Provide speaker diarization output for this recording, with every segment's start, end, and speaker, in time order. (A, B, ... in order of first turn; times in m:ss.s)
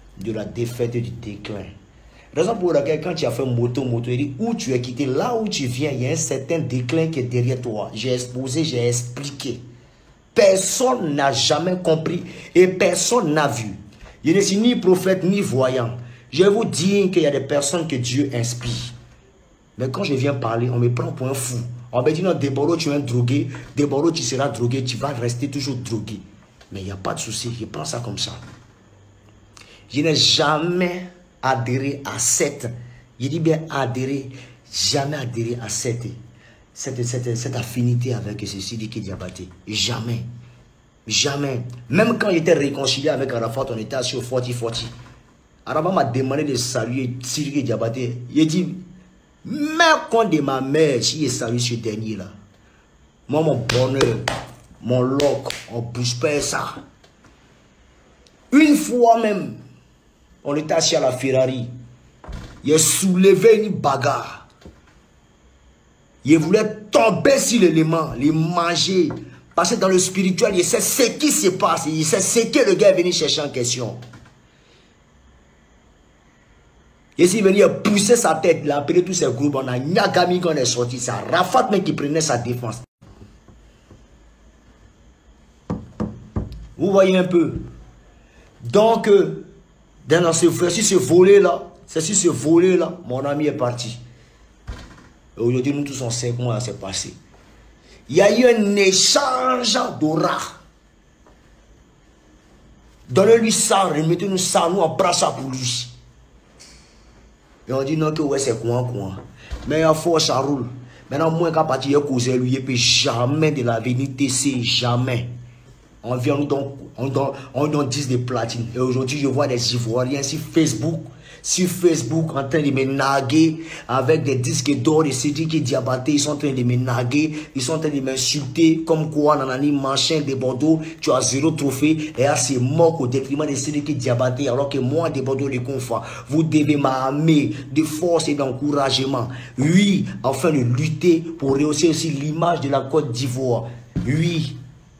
0:00.2-0:01.7 A
0:02.3-0:09.6 A
0:10.3-0:18.9 A
0:19.8-0:28.4 A
0:29.9-0:36.2 A
0:36.7-0:40.3 A
0:41.0-0:44.9 A
0:45.6-0:48.8 A
0:49.4-0:52.3 A
0:53.3-0:54.3 A
0:54.8-0:56.8 A
0:58.5-0:59.6 A
1:00.4-1:01.7 A
1:02.6-1:04.5 A
1:06.2-1:14.0 A
1:17.2-1:22.8 A
1:26.8-1:27.6 A
1:28.6-1:29.5 A
1:30.0-1:34.0 A
1:35.4-1:37.2 A
1:38.1-1:40.6 A
1:43.1-1:45.9 A
1:47.6-1:55.3 A
1:56.0-2:24.6 A